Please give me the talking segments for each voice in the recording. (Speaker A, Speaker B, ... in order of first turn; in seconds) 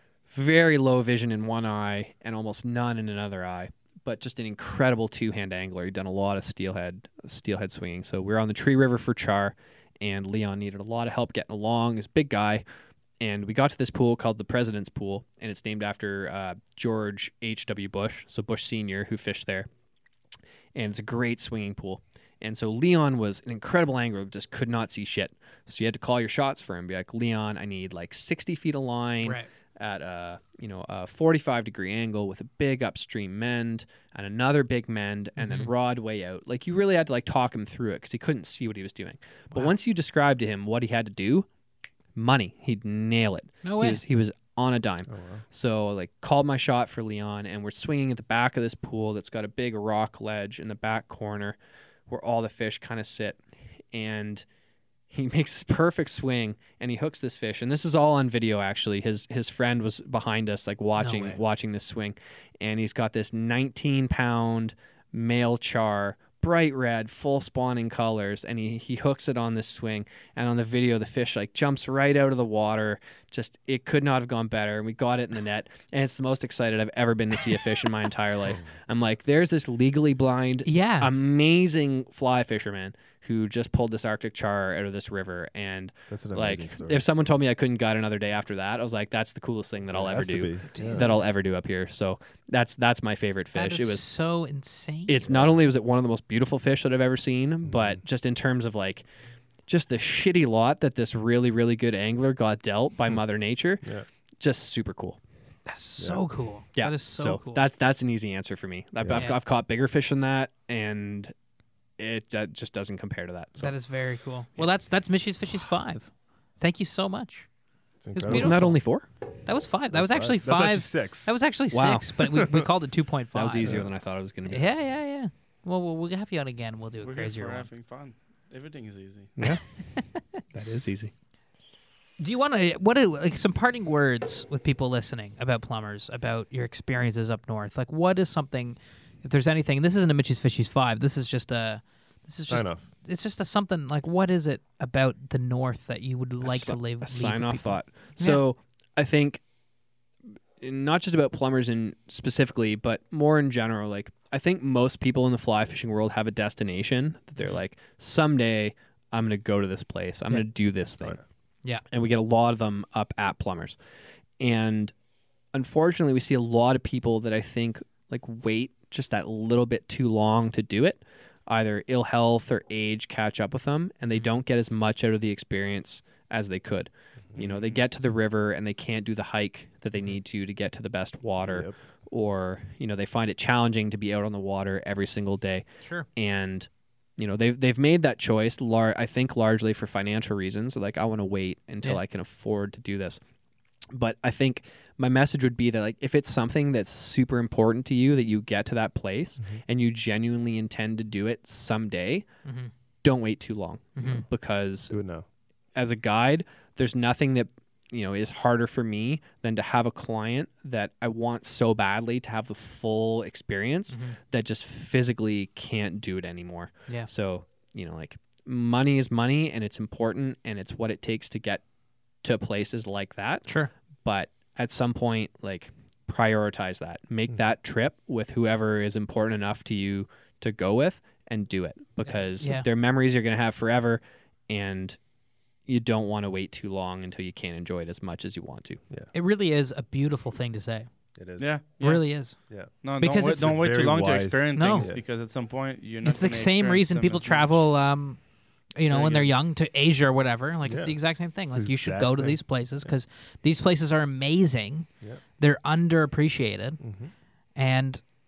Speaker A: 0.3-12.6, 13.2-19.7, 20.7-41.5, 42.1-51.6, 52.1-54.4, 55.1-94.0, 95.1-99.0, 99.7-103.8, 104.4-105.2, 106.7-111.3, 112.0-113.7, 118.2-119.0, 121.7-122.7, 123.3-124.7, 129.4-129.6, 130.5-131.1, 146.4-149.4, 150.6-161.2, 161.9-163.8, 164.4-164.9, 165.5-193.2, 193.9-202.2, 203.0-204.9, 205.7-221.6, 222.2-223.5, 224.0-235.0, 235.7-238.8
Speaker B: 29.2-29.5, 35.4-35.7, 43.6-44.0, 61.0-61.4, 80.6-81.1, 90.7-91.2, 93.5-95.2, 105.7-107.7, 109.1-109.4, 113.6-117.5, 118.1-118.8, 119.4-123.8, 124.4-127.7, 129.4-130.2, 132.2-148.4, 202.4-202.7, 204.0-204.2, 213.9-214.2, 223.4-223.7, 232.1-232.7, 239.1-240.9, 241.8-242.4, 243.0-243.5, 244.5-244.9, 246.0-248.2, 248.7-256.8, 257.6-258.1
Speaker C: 45.1-45.4, 86.1-87.0, 89.9-91.1, 95.2-95.5, 97.6-98.0, 106.0-106.2, 118.0-118.6, 119.9-121.3, 123.6-123.9, 142.5-142.8, 177.3-177.7, 181.4-181.8, 204.9-205.2, 241.2-241.5, 243.2-245.0, 250.7-252.9, 256.8-257.1
Speaker D: 127.0-129.3, 241.4-242.1, 242.8-247.6, 248.8-249.3